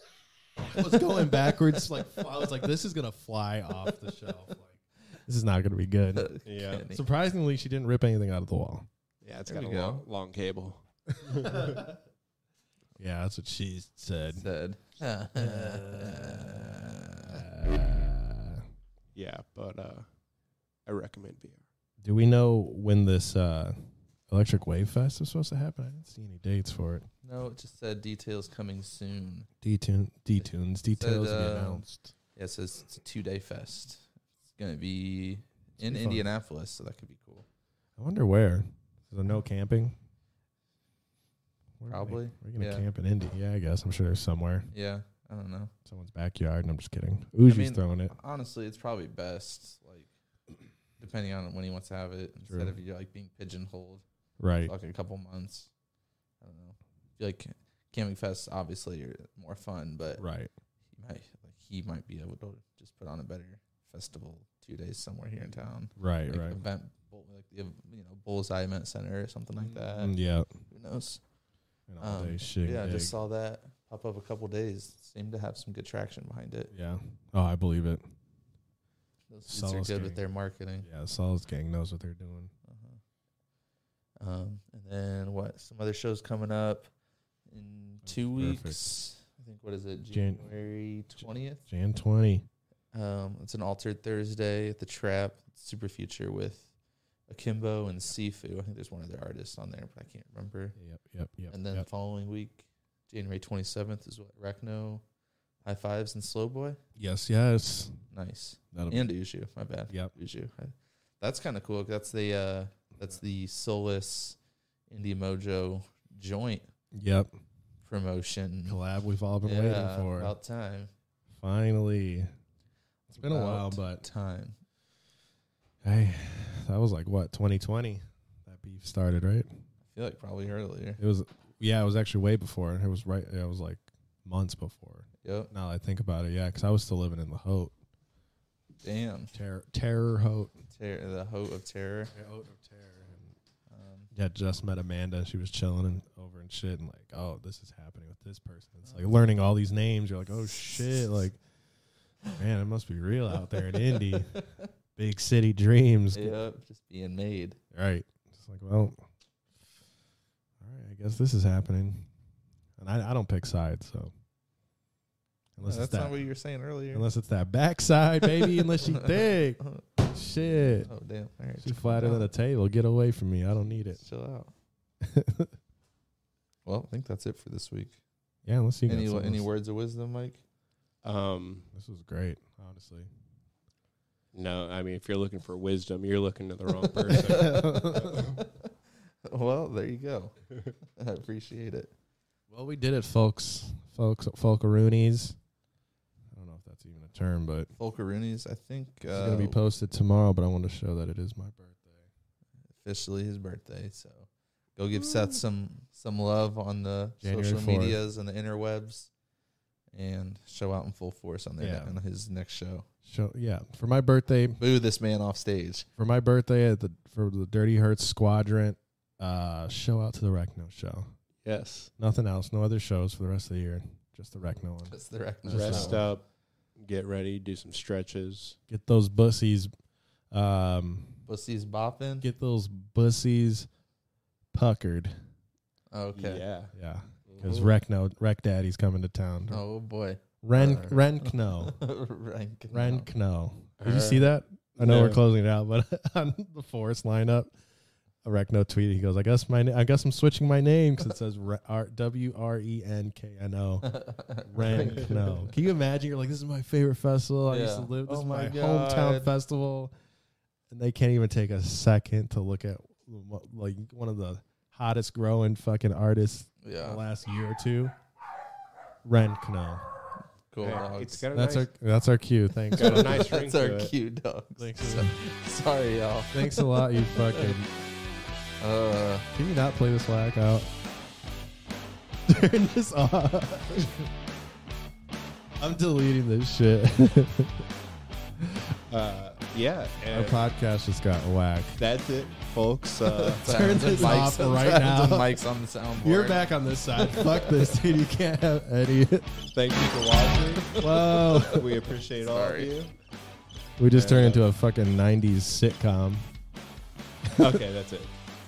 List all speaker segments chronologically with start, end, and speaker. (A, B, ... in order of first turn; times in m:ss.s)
0:00.6-0:08.9 A
0:00.7-0:01.8 B
0:06.1-0:07.0 B
0:06.4-0:06.9 C
0:09.2-0:11.9 C
0:09.5-0:10.0 B
0:13.0-0:14.5 A
0:14.3-0:17.4 B
0:15.3-0:18.6 A
0:19.1-0:20.1 C
0:20.8-0:21.6 C
0:22.0-0:23.8 A
0:24.3-0:27.1 A
0:27.2-0:29.5 B
0:29.6-0:32.1 A
0:30.4-0:31.8 B
0:32.4-0:37.4 B
0:35.8-0:36.2 A
0:38.0-0:40.0 A
0:41.8-0:44.7 A
0:41.9-0:42.8 B
0:44.7-0:45.7 B
0:45.9-0:48.1 A
0:47.4-0:50.1 B
0:51.0-0:54.0 B
0:52.5-0:52.7 A
0:54.4-0:54.7 A
0:54.6-0:55.7 B
0:56.4-1:00.2 B
1:00.2-1:00.5 A
1:00.9-1:10.1 B
1:06.0-1:06.6 A
1:09.9-1:10.5 A
1:10.7-1:11.2 B
1:11.9-1:13.1 A
1:12.0-1:16.7 B
1:16.7-1:18.0 A
1:19.3-1:20.8 B
1:19.5-1:20.2 A
1:20.8-1:22.5 A
1:22.6-1:23.0 B
1:24.2-1:26.9 B
1:27.5-1:31.6 B
1:28.1-1:28.8 A
1:30.1-1:30.5 A
1:31.2-1:32.4 A
1:32.9-1:36.7 B
1:37.3-1:40.7 B
1:40.8-1:41.8 A
1:41.5-1:45.0 B
1:45.6-1:46.8 B
1:47.0-1:48.0 A
1:48.1-1:54.4 B
1:48.7-1:49.1 A
1:54.9-1:56.7 B
1:56.9-1:57.3 A
1:57.8-1:58.8 B
1:58.7-2:00.3 A
1:59.4-2:00.9 B
2:01.4-2:02.3 A
2:03.1-2:04.0 A
2:03.2-2:04.6 B
2:05.8-2:09.5 A
2:09.9-2:11.0 B
2:11.0-2:17.7 A
2:15.2-2:15.5 B
2:18.8-2:19.3 B
2:19.3-2:20.6 A
2:20.7-2:22.1 B
2:22.1-2:23.4 A
2:23.7-2:24.1 B
2:24.1-2:31.4 A
2:30.4-2:31.2 B
2:32.3-2:36.4 A
2:33.7-2:34.2 B
2:36.1-2:37.6 B
2:37.7-2:39.0 A
2:40.6-2:42.1 A
2:42.8-2:44.1 A
2:45.6-2:46.2 A
2:45.6-2:47.1 B
2:46.9-2:50.9 A
2:48.8-2:49.8 B
2:50.8-2:52.3 B
2:51.6-2:54.0 A
2:53.9-2:54.5 B
2:55.0-2:55.5 A
2:56.6-2:58.0 B
2:58.4-2:59.4 A
2:58.8-3:00.4 B
3:01.0-3:01.7 C
3:01.7-3:03.1 A
3:04.3-3:08.3 C
3:07.1-3:08.7 B
3:07.2-3:08.1 A
3:09.2-3:10.3 B
3:11.0-3:11.9 B
3:12.5-3:15.4 A
3:16.3-3:17.7 A
3:17.8-3:19.6 B
3:19.1-3:22.0 A
3:22.8-3:29.1 B
3:27.2-3:28.0 A
3:29.9-3:32.8 B
3:31.6-3:32.0 A
3:33.0-3:34.6 A
3:34.6-3:35.9 B
3:36.0-3:41.1 A
3:41.4-3:41.9 C
3:42.0-3:46.1 A
3:44.8-3:46.0 B
3:45.5-3:48.6 C
3:48.7-3:49.7 A
3:50.3-3:51.2 A
3:51.3-3:52.3 B
3:52.2-3:53.7 A
3:54.5-3:55.2 A
3:55.9-3:56.4 B
3:56.1-3:56.7 C
3:56.7-3:59.6 A
3:57.3-3:57.7 C
3:59.5-4:03.1 B
4:00.4-4:01.8 A
4:02.7-4:07.5 A
4:03.8-4:05.2 C
4:08.2-4:19.9 A
4:13.8-4:15.1 B
4:14.7-4:15.4 C
4:17.5-4:19.3 B
4:20.7-4:27.9 A
4:26.6-4:27.0 B
4:29.0-4:30.0 A
4:30.5-4:31.2 B
4:30.6-4:31.7 C
4:31.3-4:33.3 A
4:32.7-4:33.9 C
4:32.7-4:37.6 B
4:34.6-4:35.2 A
4:36.3-4:37.7 A
4:38.6-4:39.3 B
4:39.3-4:40.7 A
4:42.3-4:44.1 A
4:45.6-4:47.6 A
4:48.9-4:50.4 C
4:50.1-4:51.8 A
4:51.8-4:53.6 C
4:53.2-4:58.0 B
4:53.3-4:55.4 A
4:56.0-4:59.4 A
4:59.5-5:00.8 C
5:00.8-5:01.7 B
5:00.8-5:01.7 A
5:01.4-5:02.9 C
5:02.2-5:02.7 B
5:03.8-5:06.3 A
5:03.9-5:04.4 C
5:07.4-5:08.1 C